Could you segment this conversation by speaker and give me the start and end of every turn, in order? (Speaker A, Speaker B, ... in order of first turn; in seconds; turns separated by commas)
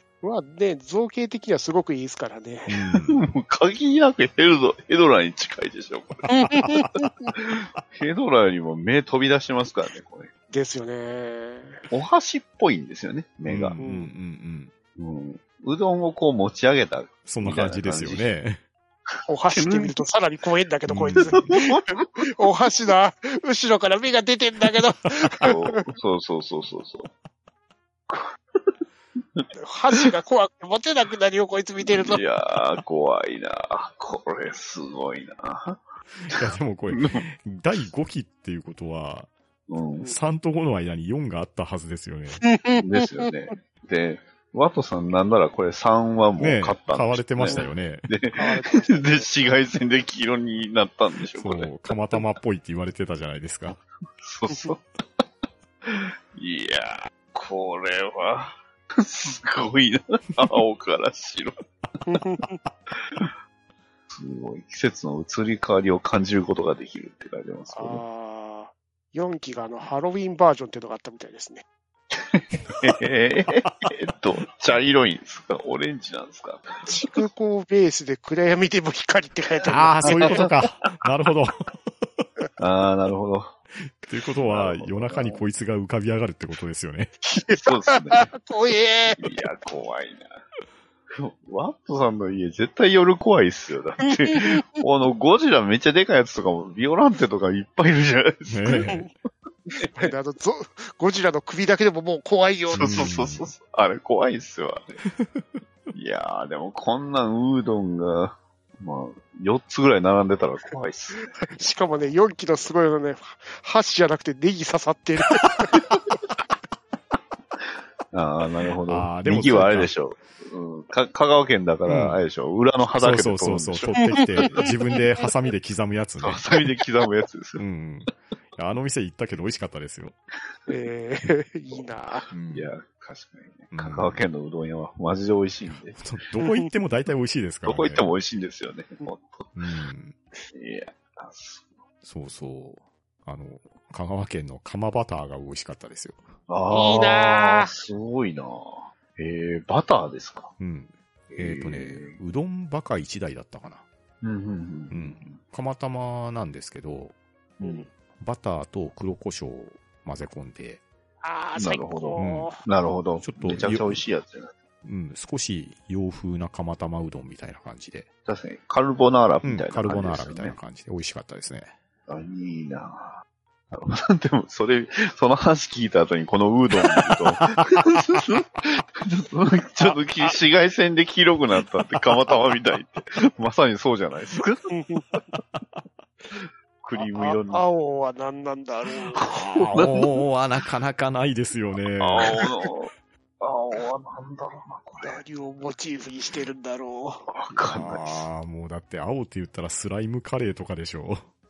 Speaker A: 0.2-2.8, Speaker B: 2.7-3.2, Speaker C: 3.0-6.3, Speaker A: 6.3-7.3, Speaker B: 6.5-7.1, Speaker C: 7.3-10.3, Speaker A: 10.5-11.9, Speaker C: 11.9-13.8, Speaker B: 13.4-14.7, Speaker A: 13.8-14.1, Speaker C: 14.9-18.3, Speaker B: 17.3-18.6, Speaker A: 19.3-25.8, Speaker C: 19.5-19.9, Speaker B: 20.9-21.4, Speaker C: 21.1-22.5, Speaker C: 25.4-27.1, Speaker C: 28.1-28.7, Speaker C: 29.4-30.1, Speaker A: 29.6-32.2, Speaker C: 31.8-37.2, Speaker B: 36.1-39.3, Speaker C: 39.7-40.1, Speaker B: 40.0-42.4, Speaker A: 42.4-43.3, Speaker C: 42.8-52.2, Speaker B: 46.4-48.1, Speaker A: 48.4-49.3, Speaker B: 51.4-53.8, Speaker C: 54.2-55.2, Speaker C: 55.8-61.5, Speaker A: 62.1-62.6, Speaker C: 64.1-68.0, Speaker A: 67.7-71.6, Speaker C: 72.1-77.2, Speaker A: 76.9-80.5, Speaker B: 79.7-82.2, Speaker C: 80.0-80.5, Speaker C: 82.6-83.5, Speaker B: 83.8-87.1, Speaker C: 84.4-85.4, Speaker A: 87.3-89.3, Speaker C: 87.5-88.3, Speaker C: 89.2-90.4, Speaker C: 91.1-99.0, Speaker A: 94.0-94.6, Speaker B: 98.5-99.1, Speaker A: 98.7-99.1, Speaker C: 99.7-100.1, Speaker A: 99.7-103.1, Speaker C: 102.7-105.0, Speaker B: 102.7-103.5, Speaker B: 105.1-105.5, Speaker C: 105.9-111.3, Speaker A: 111.4-115.9, Speaker C: 118.1-124.7, Speaker B: 118.9-119.9, Speaker B: 121.8-122.2, Speaker B: 123.0-126.4, Speaker A: 124.0-125.0, Speaker C: 126.2-127.6, Speaker B: 127.6-130.2, Speaker A: 130.7-132.3, Speaker B: 132.3-132.7, Speaker C: 132.5-136.1, Speaker B: 133.7-134.2, Speaker B: 135.7-138.1, Speaker A: 136.4-136.7, Speaker C: 137.6-139.6, Speaker B: 139.5-140.2, Speaker C: 140.5-141.7, Speaker B: 142.0-146.3, Speaker C: 146.5-150.5, Speaker A: 146.7-147.7, Speaker B: 150.6-153.8, Speaker C: 151.3-152.2, Speaker C: 154.2-155.4, Speaker B: 154.9-157.2, Speaker C: 157.6-157.9, Speaker A: 157.6-157.9, Speaker B: 158.2-160.8, Speaker A: 161.2-162.6, Speaker C: 161.6-164.5, Speaker B: 162.2-162.5, Speaker B: 163.2-164.0, Speaker B: 164.8-168.1, Speaker C: 168.2-170.6, Speaker B: 169.4-171.7, Speaker C: 172.1-184.7, Speaker B: 177.4-177.8, Speaker A: 179.8-180.3, Speaker A: 184.7-185.2, Speaker C: 186.3-187.6, Speaker A: 187.0-189.8, Speaker C: 189.2-190.1, Speaker B: 189.6-192.4, Speaker C: 192.0-195.2, Speaker A: 195.0-197.3, Speaker C: 197.3-198.3, Speaker B: 197.5-201.2